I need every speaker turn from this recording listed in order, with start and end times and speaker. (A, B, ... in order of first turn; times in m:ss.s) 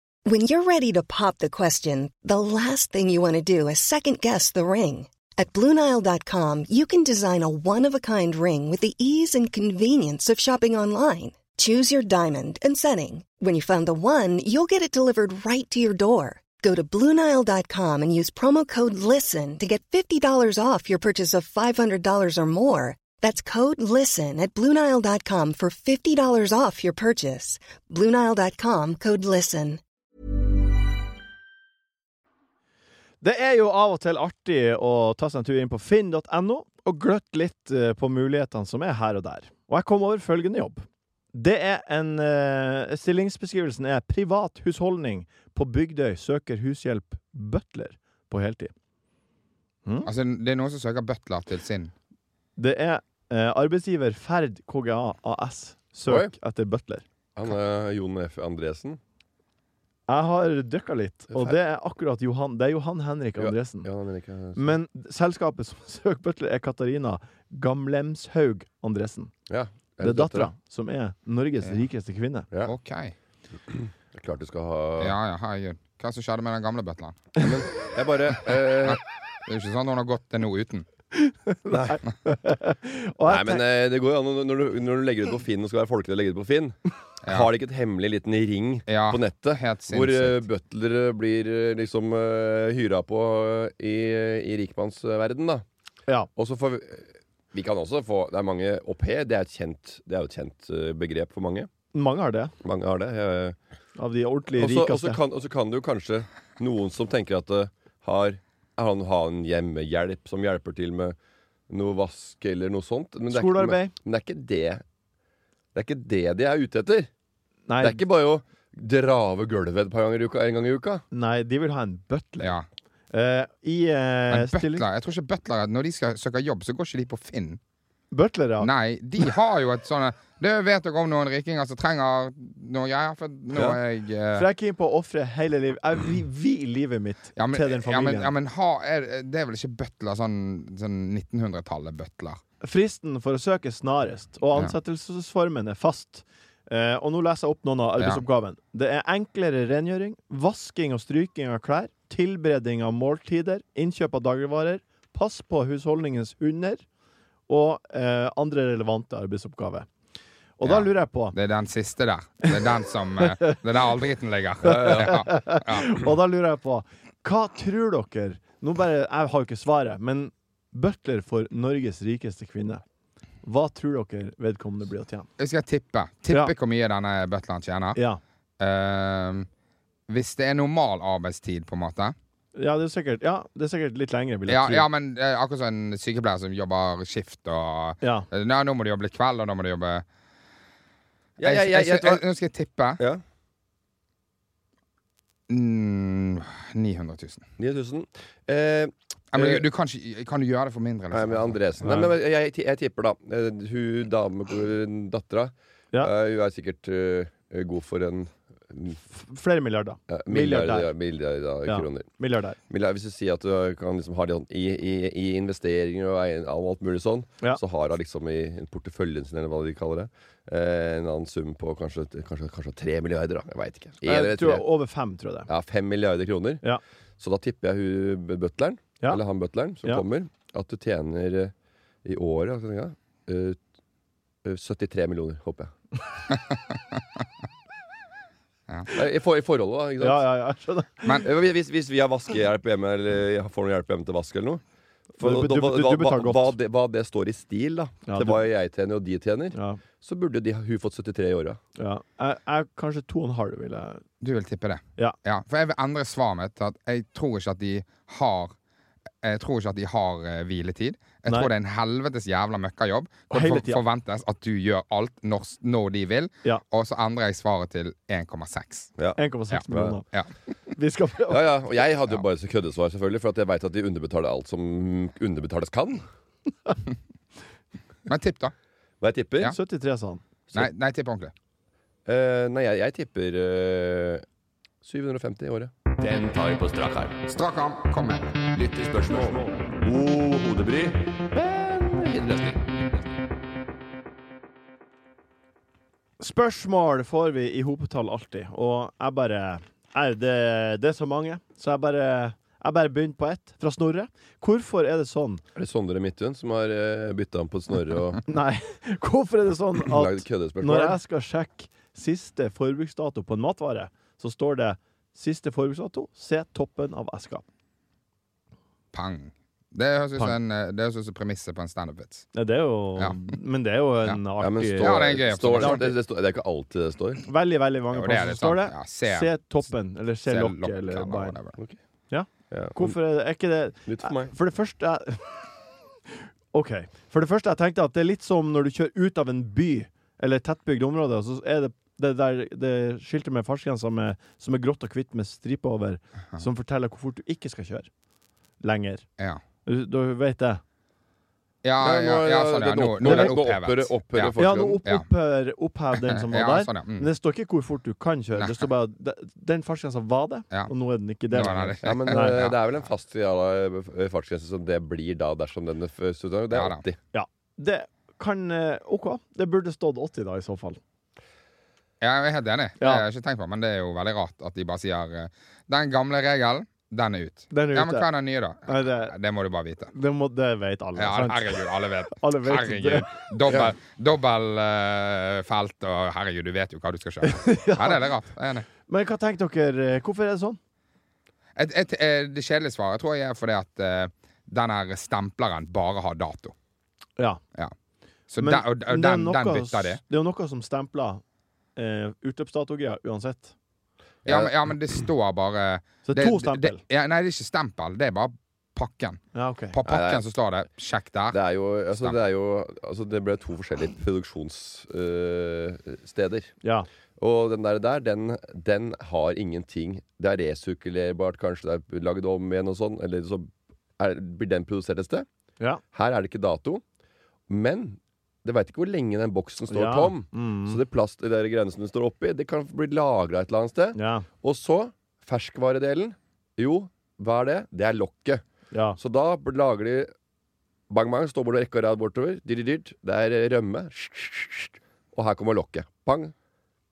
0:00.3-0:29.8 A
0:33.2-0:48.7 B
0:50.0-0:51.9 C
0:52.6-0:57.0 B
0:56.1-0:56.3 D
0:57.4-0:59.0 D
1:00.1-1:03.9 B
1:03.4-1:04.7 D
1:04.6-1:09.3 B
1:09.5-1:10.5 D
1:10.0-1:12.5 B
1:12.7-1:13.2 C
1:13.8-1:15.2 D
1:15.0-1:17.5 C
1:17.4-1:19.0 D
1:18.7-1:20.9 C
1:21.1-1:23.6 B
1:21.7-1:22.0 D
1:23.3-1:35.6 D
1:27.2-1:27.5 C
1:28.9-1:30.4 C
1:36.4-1:41.7 D
1:41.9-1:42.5 B
1:42.6-1:43.6 D
1:44.0-1:45.2 B
1:44.6-1:51.2 D
1:51.7-1:54.8 D
1:53.3-1:53.9 B
1:55.8-1:57.1 D
1:57.7-1:58.0 B
1:57.8-2:01.0 D
2:01.1-2:02.6 B
2:02.4-2:02.7 C
2:03.1-2:04.8 B
2:04.3-2:07.6 C
2:08.1-2:08.7 B
2:08.6-2:14.5 C
2:14.3-2:18.3 B
2:17.4-2:22.4 C
2:22.6-2:36.8 B
2:28.0-2:28.2 C
2:37.5-2:39.9 B
2:40.6-2:41.4 B
2:40.6-2:46.0 C
2:43.2-2:43.6 B
2:44.6-2:52.8 B
2:44.7-2:45.0 D
2:53.4-2:55.3 B
2:55.4-2:58.0 C
2:56.3-2:56.5 B
2:58.0-2:58.2 B
2:58.6-2:59.5 C
3:00.1-3:02.2 C
3:02.6-3:04.9 B
3:04.5-3:10.1 C
3:08.0-3:08.3 B
3:11.4-3:12.2 D
3:11.4-3:13.0 C
3:15.5-3:17.5 C
3:17.6-3:19.6 D
3:19.3-3:21.9 C
3:21.1-3:29.0 D
3:21.8-3:22.1 B
3:29.1-3:30.9 B
3:30.1-3:32.1 D
3:31.7-3:32.6 B
3:32.7-3:44.6 D
3:44.0-3:45.5 B
3:45.5-3:46.6 D
3:47.2-3:51.5 D
3:52.0-3:53.6 D
3:54.4-3:55.7 D
3:58.9-4:00.2 D
4:00.0-4:01.2 B
4:01.2-4:04.6 D
4:05.2-4:11.6 D
4:05.2-4:06.5 B
4:08.1-4:08.4 B
4:09.5-4:09.8 B
4:11.8-4:14.0 B
4:14.2-4:18.5 C
4:19.2-4:28.9 C
4:21.3-4:21.5 B
4:23.3-4:23.8 B
4:29.0-4:30.0 D
4:29.2-4:30.0 B
4:29.5-4:30.3 C
4:30.7-4:31.5 B
4:31.3-4:36.0 D
4:38.1-4:38.5 C
4:39.0-4:39.6 D
4:39.4-4:40.2 B
4:40.5-4:41.3 C
4:42.1-4:44.2 D
4:44.8-4:45.7 D
4:46.0-4:47.3 E
4:46.6-4:47.0 D
4:47.4-4:48.3 C
4:48.4-4:49.3 E
4:48.8-4:50.7 D
4:50.0-4:50.8 E
4:51.3-4:52.8 D
4:56.2-5:05.4 B
5:05.6-5:08.2 D
5:08.3-5:17.4 B
5:09.8-5:11.0 D
5:18.9-5:22.3 C
5:22.3-5:25.9 B
5:24.4-5:27.2 D
5:24.8-5:25.9 C
5:27.3-5:31.4 B
5:27.9-5:29.5 C
5:30.2-5:31.6 C
5:32.1-5:35.4 B
5:32.5-5:33.0 D
5:33.9-5:34.3 D
5:36.5-5:47.9 B
5:48.6-5:49.1 B
5:49.7-5:50.6 B
5:51.6-5:55.1 C
5:51.8-5:54.8 D
5:53.0-5:53.4 B
5:54.4-6:02.4 B
5:56.0-5:57.1 C
5:58.4-5:58.7 C
6:01.3-6:02.6 C
6:01.8-6:07.0 D
6:06.5-6:06.8 C
6:07.1-6:10.8 B
6:12.0-6:19.9 C
6:12.8-6:13.0 B
6:17.5-6:18.1 B
6:18.7-6:19.1 B
6:19.9-6:23.1 B
6:21.0-6:28.7 C
6:27.2-6:28.1 B
6:28.9-6:30.6 B
6:31.6-6:36.5 C
6:38.3-6:40.0 C
6:38.4-6:41.2 B
6:41.8-6:43.5 B
6:44.3-6:44.5 D
6:44.3-6:51.4 C
6:46.1-6:46.8 B
6:49.3-6:49.8 B
6:49.9-6:50.2 D
6:51.3-6:56.5 D
6:52.0-6:52.2 C
6:57.2-7:05.3 D
7:05.9-7:06.8 D
7:07.5-7:18.4 D
7:09.7-7:10.8 B
7:14.0-7:14.3 B
7:18.7-7:19.0 B
7:19.0-7:20.1 D
7:20.9-7:26.3 D